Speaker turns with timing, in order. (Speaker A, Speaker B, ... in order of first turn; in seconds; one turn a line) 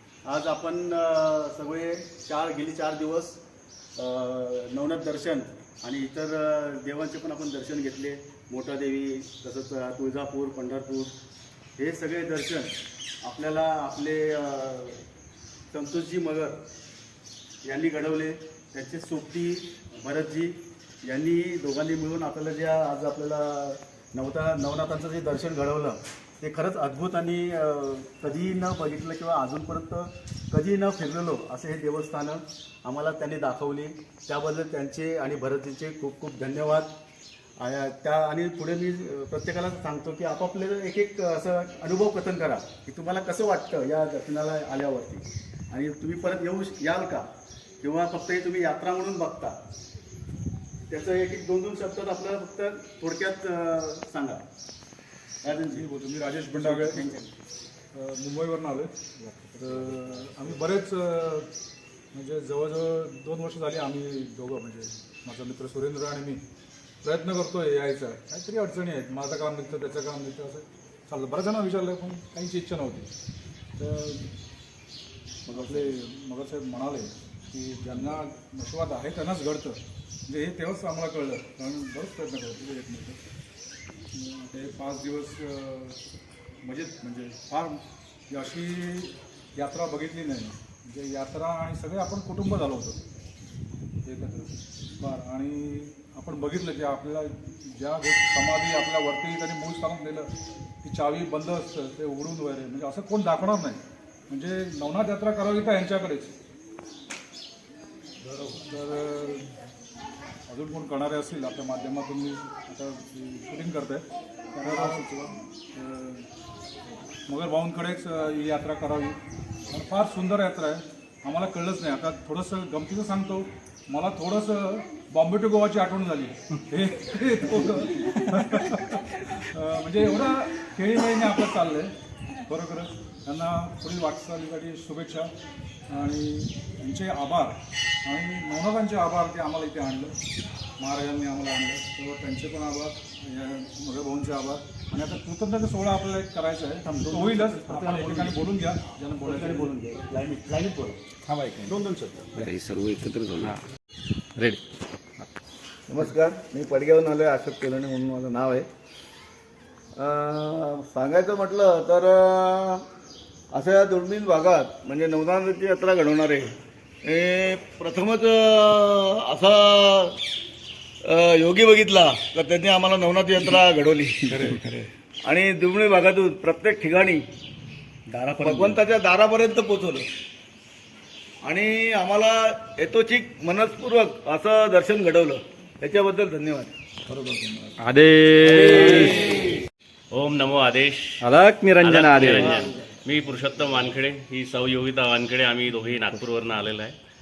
Speaker A: 0.2-3.4
Speaker A: 4.0-11.1
Speaker A: 11.8-15.0
Speaker A: 15.7-16.6
Speaker A: 17.6-36.9
Speaker A: 37.6-47.3
Speaker A: 47.8-49.6
Speaker A: 50.9-54.5
Speaker A: 55.4-55.9
Speaker B: 55.7-57.1
Speaker A: 56.5-57.2
Speaker B: 57.9-58.9
Speaker B: 59.5-61.5
Speaker B: 62.1-66.4
Speaker B: 67.0-73.1
Speaker B: 73.8-74.3
Speaker A: 75.5-75.9
Speaker B: 75.5-83.2
Speaker B: 84.1-86.0
Speaker B: 86.6-93.0
Speaker B: 94.0-100.3
Speaker B: 100.8-106.3
Speaker B: 108.5-109.5
Speaker B: 110.5-114.0
Speaker A: 114.6-115.1
Speaker B: 114.6-116.3
Speaker B: 117.3-119.2
Speaker B: 119.7-131.9
Speaker B: 132.5-135.3
Speaker B: 135.9-140.2
Speaker B: 140.8-149.7
Speaker A: 146.8-148.5
Speaker A: 149.2-151.0
Speaker B: 151.3-151.9
Speaker A: 151.7-152.4
Speaker C: 155.9-158.7
Speaker C: 160.0-162.8
Speaker C: 163.5-166.5
Speaker C: 167.0-170.1
Speaker C: 171.1-174.5
Speaker B: 174.4-174.8
Speaker C: 175.2-177.2
Speaker A: 178.1-178.8
Speaker C: 178.4-180.0
Speaker C: 181.4-186.7
Speaker B: 187.1-187.7
Speaker D: 187.8-189.2
Speaker C: 188.5-189.4
Speaker E: 190.1-191.2
Speaker D: 191.2-192.6
Speaker E: 191.8-196.9